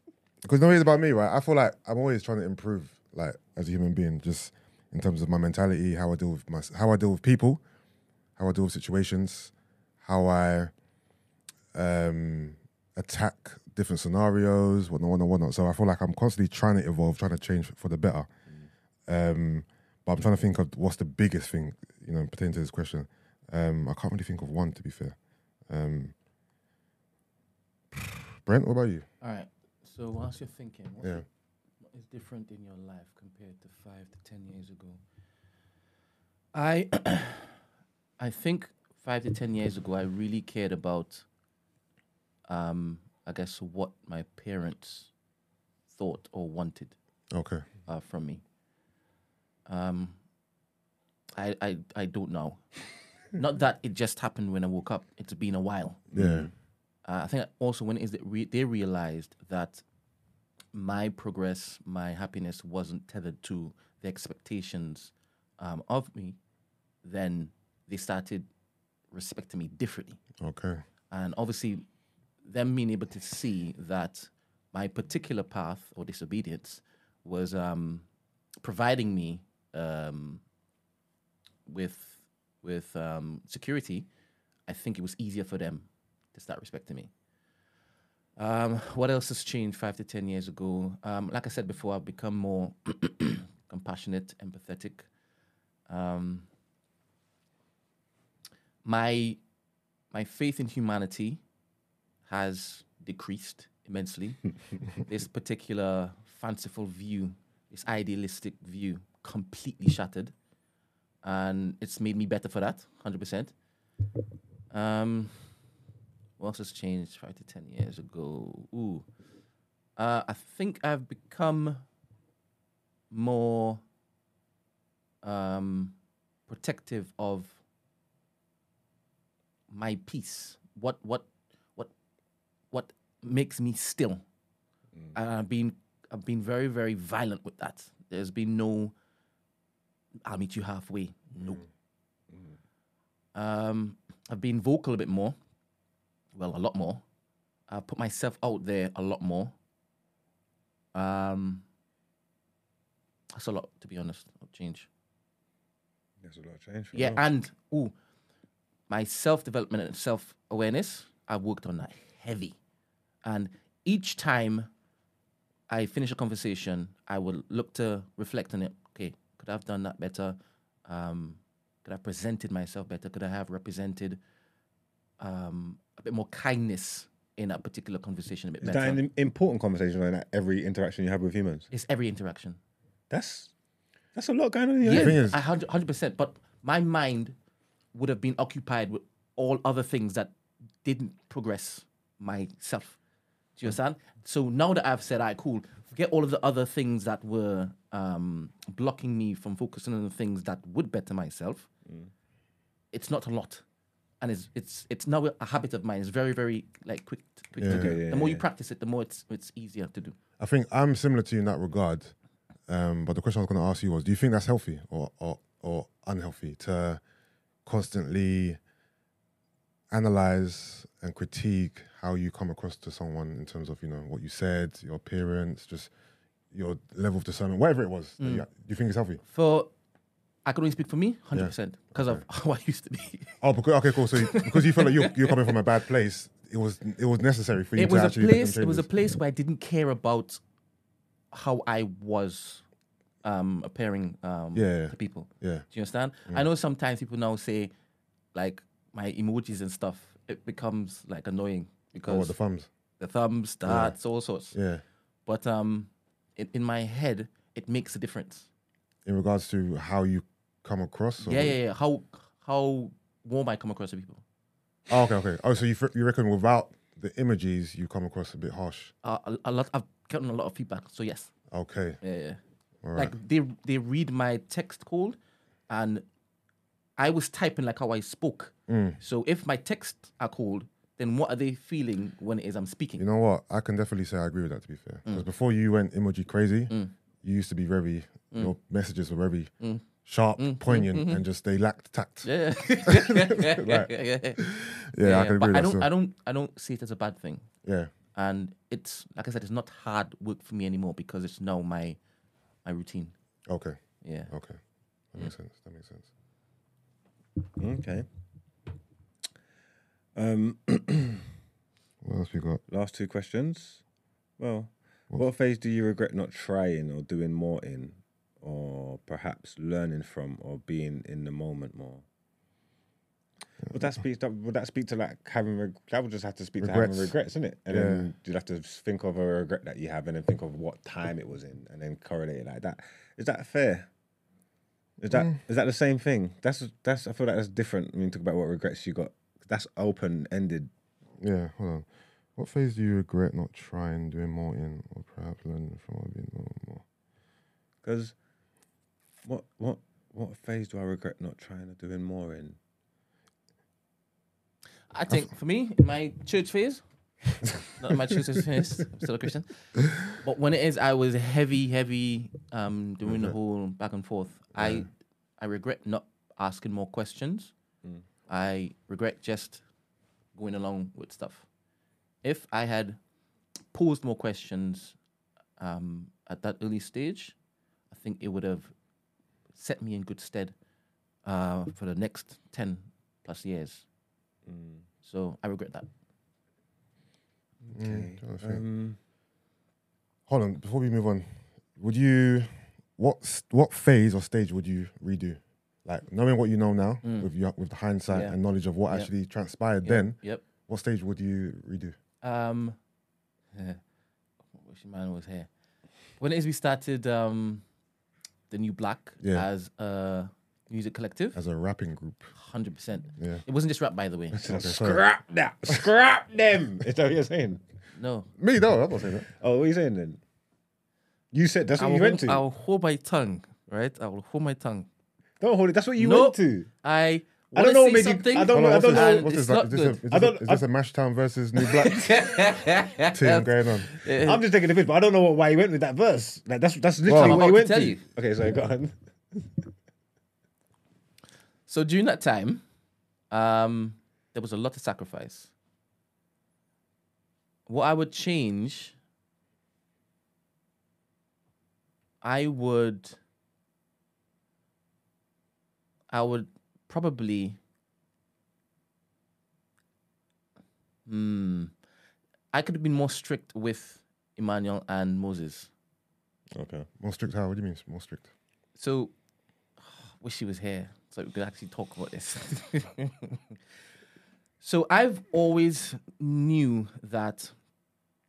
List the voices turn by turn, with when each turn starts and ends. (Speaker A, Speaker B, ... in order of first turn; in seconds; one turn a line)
Speaker A: 0.4-7.6
Speaker A: 8.4-10.7
Speaker A: 11.7-18.3
Speaker A: 19.1-25.1
Speaker A: 25.7-26.1
Speaker A: 27.9-29.1
Speaker B: 29.2-31.2
Speaker B: 31.9-35.0
Speaker B: 36.5-37.5
Speaker B: 38.2-41.2
Speaker B: 42.5-45.1
Speaker B: 45.9-46.9
Speaker A: 47.3-47.6
Speaker B: 47.9-48.4
Speaker B: 49.7-50.1
Speaker B: 51.4-52.6
Speaker B: 53.3-56.1
Speaker C: 56.1-56.5
Speaker A: 56.1-56.5
Speaker B: 57.0-59.8
Speaker B: 60.7-66.4
Speaker B: 67.0-68.5
Speaker B: 69.1-70.2
Speaker A: 70.4-70.8
Speaker B: 71.1-71.8
Speaker B: 72.4-78.0
Speaker B: 78.6-80.4
Speaker B: 81.7-84.1
Speaker B: 84.7-87.1
Speaker B: 88.4-95.0
Speaker B: 95.9-96.5
Speaker B: 98.8-99.4
Speaker B: 100.1-101.4
Speaker B: 102.2-110.3
Speaker B: 111.2-113.5
Speaker B: 114.7-115.4
Speaker B: 116.4-119.0
Speaker B: 120.0-121.8
Speaker B: 123.1-123.8
Speaker B: 125.2-125.9
Speaker B: 126.5-127.6
Speaker B: 129.7-131.9
Speaker B: 132.7-134.2
Speaker B: 135.1-138.9
Speaker B: 140.2-141.6
Speaker B: 143.3-145.3
Speaker B: 146.3-147.0
Speaker B: 147.7-149.5
Speaker B: 150.9-151.6
Speaker B: 153.3-154.9
Speaker C: 156.2-157.2
Speaker B: 156.9-157.9
Speaker B: 158.9-162.6
Speaker B: 163.2-164.7
Speaker B: 165.7-174.2
Speaker B: 175.2-179.0
Speaker C: 178.6-181.7
Speaker B: 181.7-182.6
Speaker C: 183.1-183.5
Speaker C: 184.1-185.2
Speaker B: 184.8-187.3
Speaker A: 184.9-185.4
Speaker B: 187.9-190.3
Speaker B: 190.8-193.0
Speaker B: 193.6-201.7
Speaker B: 202.9-203.6
Speaker B: 204.2-210.2
Speaker A: 207.6-208.0
Speaker C: 207.6-208.4
Speaker A: 210.4-212.1
Speaker A: 212.7-217.0
Speaker A: 217.6-218.6
Speaker A: 219.9-225.9
Speaker A: 226.5-229.2
Speaker B: 228.2-228.4
Speaker B: 229.3-229.7
Speaker B: 230.4-233.3
Speaker A: 231.3-232.2
Speaker A: 233.4-238.9
Speaker B: 234.1-235.6
Speaker B: 237.8-240.4
Speaker B: 241.3-242.6
Speaker B: 243.2-247.7
Speaker A: 244.5-245.7
Speaker B: 248.3-252.3
Speaker A: 252.0-252.7
Speaker B: 253.0-254.6
Speaker A: 253.6-253.9
Speaker A: 254.5-254.8
Speaker B: 255.2-258.5
Speaker A: 259.1-261.6
Speaker B: 261.2-264.2
Speaker A: 264.9-268.9
Speaker B: 269.0-271.3
Speaker A: 271.5-272.0
Speaker B: 272.0-272.4
Speaker A: 272.8-273.1
Speaker B: 272.9-275.2
Speaker B: 275.7-276.0
Speaker B: 277.0-283.0
Speaker A: 278.7-279.0
Speaker A: 283.0-289.5
Speaker A: 290.0-292.3
Speaker B: 290.4-291.2
Speaker B: 292.2-294.4
Speaker A: 292.8-295.9
Speaker B: 295.0-297.5
Speaker A: 297.6-297.9
Speaker B: 298.1-302.0
Speaker B: 302.6-303.1
Speaker A: 303.5-304.6
Speaker B: 304.0-304.3
Speaker A: 305.1-306.1
Speaker C: 307.6-308.1
Speaker C: 310.1-311.2
Speaker A: 312.0-312.6
Speaker C: 312.7-313.8
Speaker C: 314.4-322.0
Speaker A: 323.6-323.9
Speaker C: 323.7-333.9
Speaker A: 326.6-327.1
Speaker A: 327.7-328.1
Speaker C: 335.0-340.7
Speaker A: 335.1-335.4
Speaker A: 341.2-346.8
Speaker C: 347.8-348.1
Speaker C: 349.2-352.6
Speaker B: 354.9-356.8
Speaker B: 357.8-367.5
Speaker A: 363.1-363.3
Speaker A: 364.5-364.9
Speaker B: 368.3-369.6
Speaker B: 370.3-371.4
Speaker B: 372.2-373.0
Speaker B: 373.7-374.9
Speaker B: 375.6-377.3
Speaker B: 377.9-378.7
Speaker B: 379.5-380.5
Speaker B: 381.2-383.8
Speaker C: 384.4-384.8
Speaker B: 385.0-385.9
Speaker A: 387.7-388.6
Speaker C: 387.7-389.0
Speaker A: 390.3-401.9
Speaker B: 397.0-397.3
Speaker B: 398.1-398.4
Speaker B: 399.8-400.4
Speaker B: 402.2-402.8
Speaker B: 403.5-403.8
Speaker B: 404.6-405.5
Speaker B: 406.2-407.6
Speaker B: 408.5-411.4
Speaker A: 409.2-409.5
Speaker A: 411.3-412.3
Speaker B: 412.4-414.4
Speaker A: 414.3-415.0
Speaker C: 414.4-417.6
Speaker B: 417.9-418.3
Speaker A: 418.4-419.3
Speaker C: 419.4-420.2
Speaker C: 421.3-422.4
Speaker B: 421.8-424.9
Speaker C: 425.4-426.7
Speaker B: 426.0-430.0
Speaker C: 427.5-429.3
Speaker A: 428.5-432.4
Speaker C: 430.1-430.6
Speaker B: 431.6-434.4
Speaker A: 433.1-433.9
Speaker C: 434.2-439.6
Speaker A: 437.0-437.4
Speaker B: 437.1-438.0
Speaker B: 441.7-442.6
Speaker B: 443.3-445.5
Speaker B: 447.7-448.9
Speaker B: 452.2-453.2
Speaker B: 456.1-457.6
Speaker B: 461.1-461.7
Speaker B: 462.5-465.7
Speaker C: 466.5-466.9
Speaker A: 467.0-468.3
Speaker B: 468.8-469.1
Speaker B: 469.8-473.4
Speaker B: 474.6-477.5